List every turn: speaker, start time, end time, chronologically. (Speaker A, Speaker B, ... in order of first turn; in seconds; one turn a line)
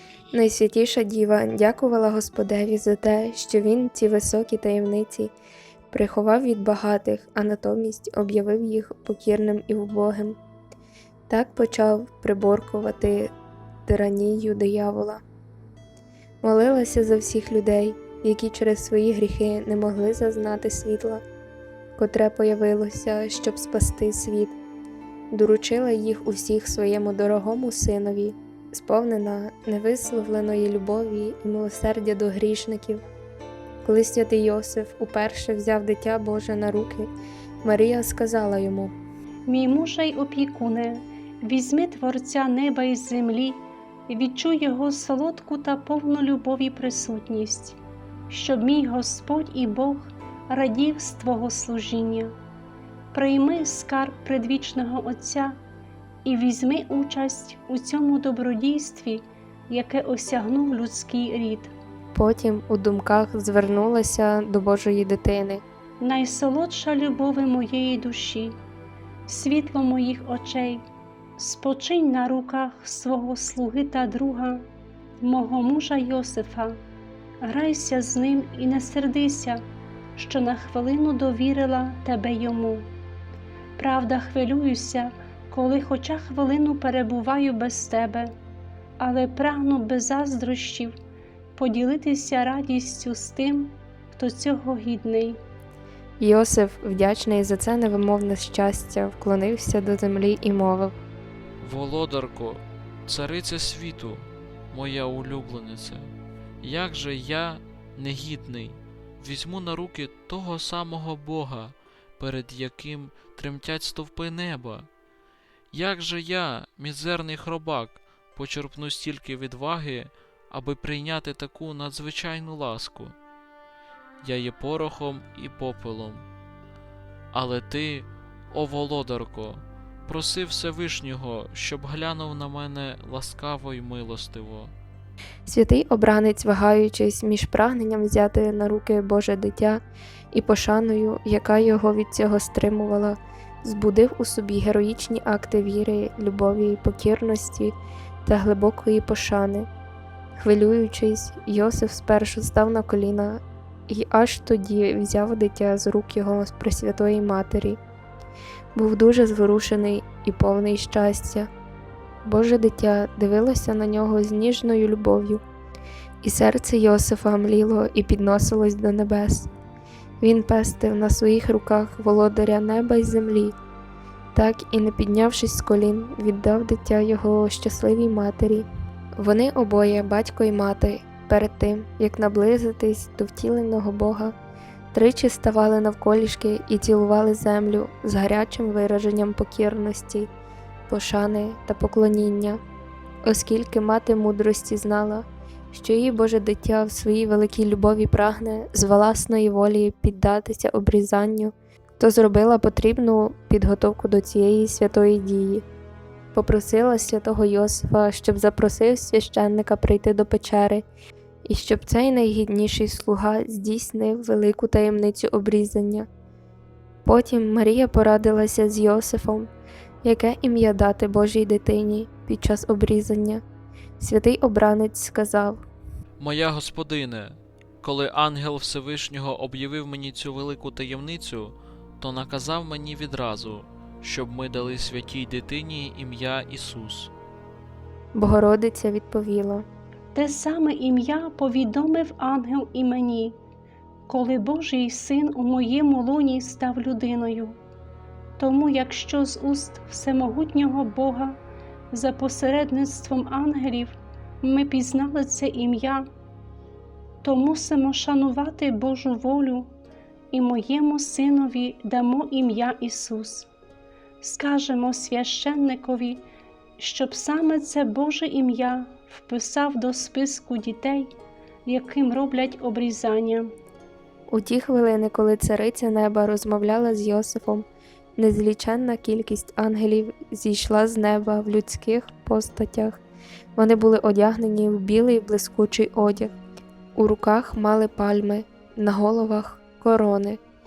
Speaker A: 0.3-5.3
Speaker A: 5.9-10.4
Speaker A: 11.3-13.3
Speaker A: 13.9-15.2
Speaker A: 16.4-21.2
Speaker A: 22.0-24.6
Speaker A: 25.3-33.0
Speaker A: 33.8-37.1
Speaker A: 37.6-39.0
Speaker B: 39.5-52.3
Speaker B: 53.1-55.6
Speaker B: 56.2-61.7
Speaker A: 62.1-65.6
Speaker B: 66.0-68.5
Speaker B: 69.3-70.8
Speaker B: 71.4-74.7
Speaker B: 75.2-76.8
Speaker B: 77.4-79.6
Speaker B: 80.2-82.9
Speaker B: 83.8-88.3
Speaker B: 89.0-90.9
Speaker B: 91.5-95.4
Speaker A: 96.2-101.0
Speaker C: 101.6-114.9
Speaker C: 115.7-123.2
Speaker C: 124.2-126.3
Speaker C: 127.3-134.7
Speaker A: 135.4-149.7
Speaker A: 150.4-157.8
Speaker A: 158.8-161.5
Speaker A: 162.2-165.4
Speaker A: 166.2-169.5
Speaker A: 170.2-173.6
Speaker A: 174.3-178.7
Speaker A: 179.2-184.3
Speaker A: 184.9-190.3
Speaker A: 190.9-192.6
Speaker A: 193.2-205.7
Speaker A: 206.3-210.9
Speaker A: 211.4-216.1
Speaker A: 217.1-219.5
Speaker A: 220.0-223.4
Speaker A: 224.0-225.6
Speaker C: 226.2-237.1
Speaker A: 238.2-239.7
Speaker B: 240.1-243.4
Speaker B: 244.1-247.6
Speaker B: 248.4-251.4
Speaker B: 251.9-256.1
Speaker B: 257.2-259.7
Speaker B: 260.3-263.5
Speaker B: 264.2-266.2
Speaker B: 266.8-271.1
Speaker B: 271.7-273.5
Speaker A: 274.3-283.0
Speaker A: 283.6-286.3
Speaker A: 286.9-290.4